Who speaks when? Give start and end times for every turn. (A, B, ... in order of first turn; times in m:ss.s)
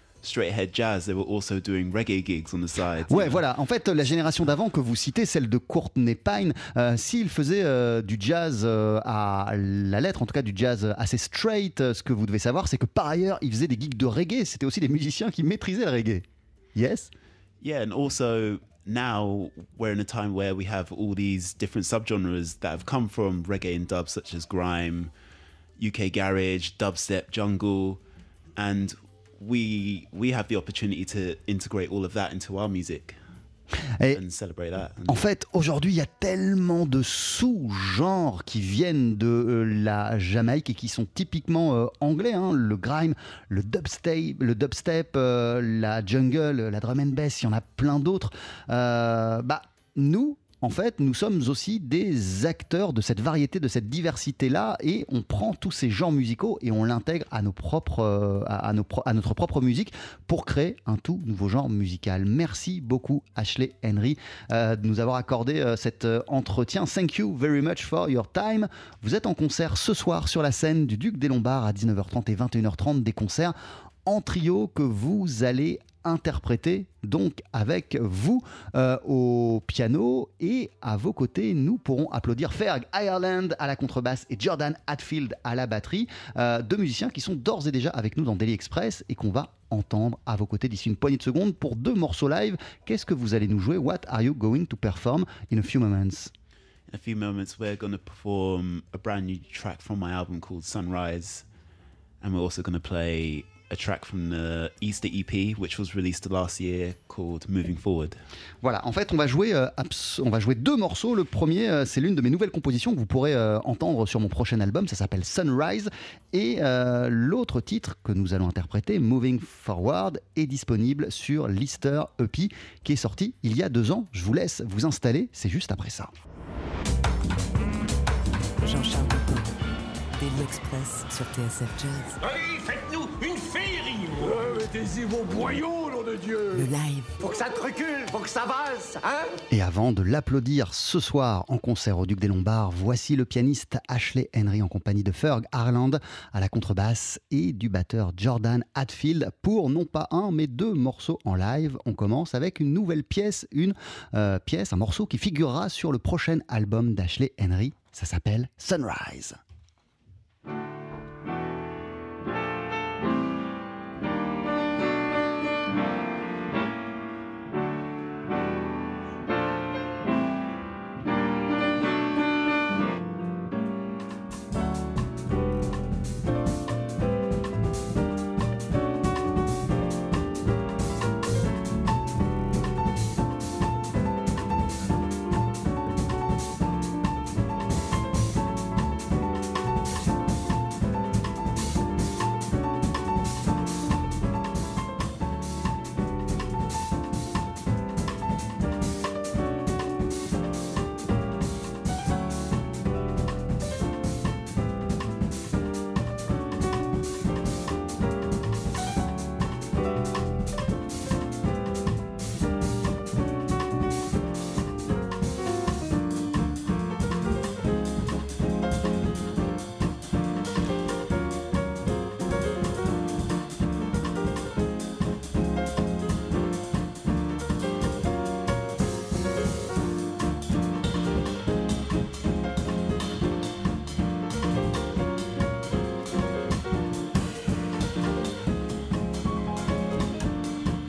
0:00.2-0:03.4 A
0:03.1-0:16.2 B
0:16.7-0:17.1 B
0:17.6-0:25.1 A
0:25.8-0:28.0 A
0:28.6-0:33.2 A
0:34.1-0:35.2 A
0:35.1-1:13.5 B
1:14.0-1:36.3 B
1:36.9-1:41.5 A
1:42.2-1:48.2 A
1:48.6-2:06.1 B
2:08.6-2:09.5 C
2:10.1-2:12.2 C
2:12.2-2:16.7 D
2:16.5-2:17.2 C
2:17.2-2:19.4 D
2:19.5-2:39.4 B